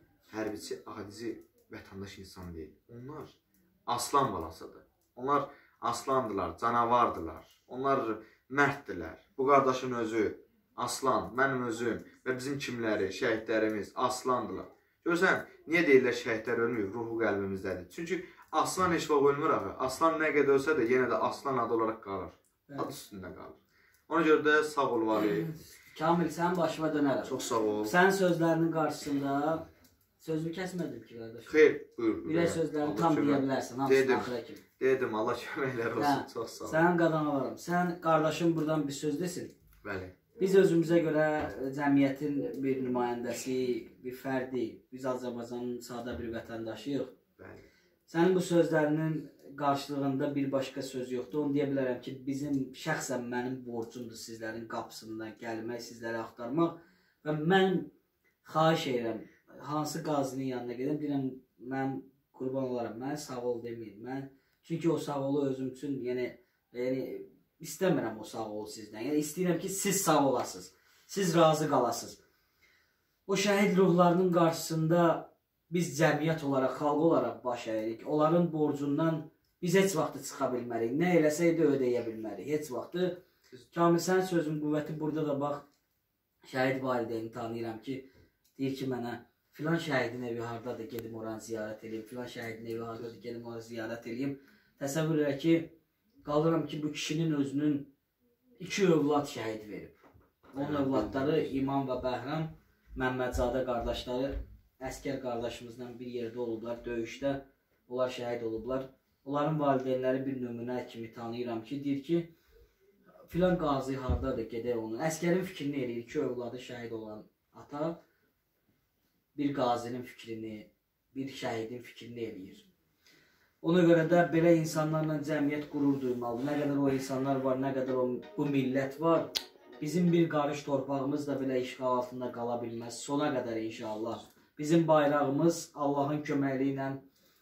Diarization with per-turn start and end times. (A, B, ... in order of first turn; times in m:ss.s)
0:00.3-0:23.5 A
0:22.7-0:22.9 B
0:24.1-0:25.5 A
0:25.1-0:29.6 B
0:27.2-0:27.9 A
0:30.2-0:31.6 B
0:31.5-0:36.8 A
0:32.2-0:34.6 B
0:36.0-0:39.5 B
0:39.8-0:40.2 A
0:40.4-0:47.1 B
0:47.4-0:47.7 A
0:48.1-0:57.9 B
0:58.4-1:12.2 B
1:13.3-1:23.2 B
1:23.7-1:25.6 B
1:26.4-1:37.9 B
1:38.6-1:40.0 B
1:40.5-1:52.3 B
1:40.6-1:41.5 A
1:53.3-1:58.0 B
1:59.3-2:02.7 B
2:03.6-2:17.0 B